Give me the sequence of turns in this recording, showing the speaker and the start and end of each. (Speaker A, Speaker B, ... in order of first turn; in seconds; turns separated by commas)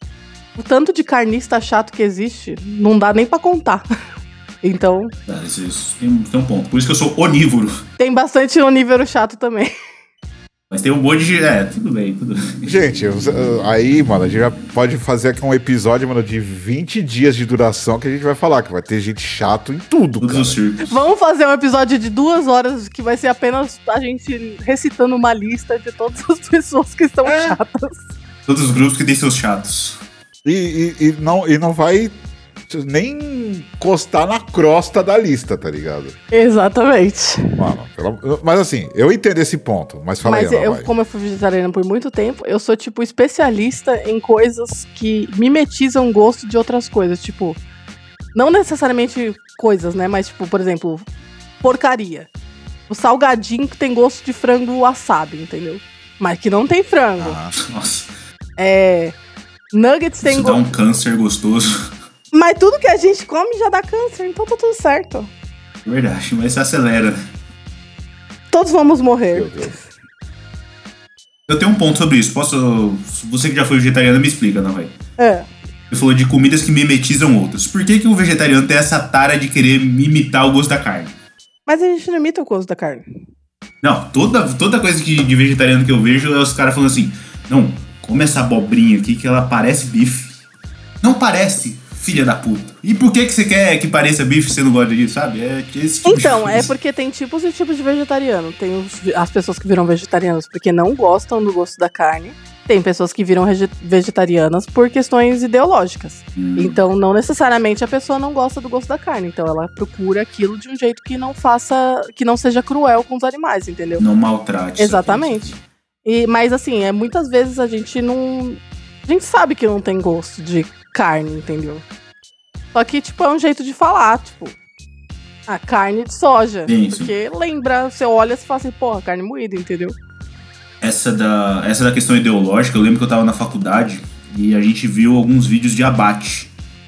Speaker A: 0.6-3.8, Speaker A: 4.6-5.1, Speaker B: 5.3-7.8, Speaker A: 8.0-9.7, Speaker B: 10.7-12.7, Speaker C: 12.6-20.6, Speaker B: 20.2-20.9, Speaker A: 20.8-28.0, Speaker B: 28.5-30.0, Speaker C: 30.4-32.1, Speaker C: 32.7-36.1, Speaker A: 36.3-37.5, Speaker C: 37.6-40.9, Speaker A: 40.2-47.6, Speaker A: 48.3-51.0, Speaker A: 51.6-52.3, Speaker A: 52.9-57.4, Speaker C: 57.2-57.5, Speaker B: 57.6-58.1, Speaker A: 58.6-59.1, Speaker A: 59.7-60.6, Speaker B: 60.2-61.9, Speaker A: 62.3-65.3, Speaker B: 65.8-67.2, Speaker A: 68.5-69.8, Speaker C: 69.3-69.7, Speaker B: 71.5-74.9, Speaker A: 75.2-75.5, Speaker B: 75.9-81.1, Speaker A: 81.7-83.0, Speaker B: 83.8-90.4, Speaker B: 91.0-96.7, Speaker A: 96.0-114.0, Speaker B: 106.3-106.8, Speaker B: 114.0-115.6, Speaker A: 114.8-115.5, Speaker A: 116.0-121.8, Speaker A: 122.7-124.5, Speaker A: 125.5-129.9, Speaker B: 126.7-127.1, Speaker B: 130.8-136.5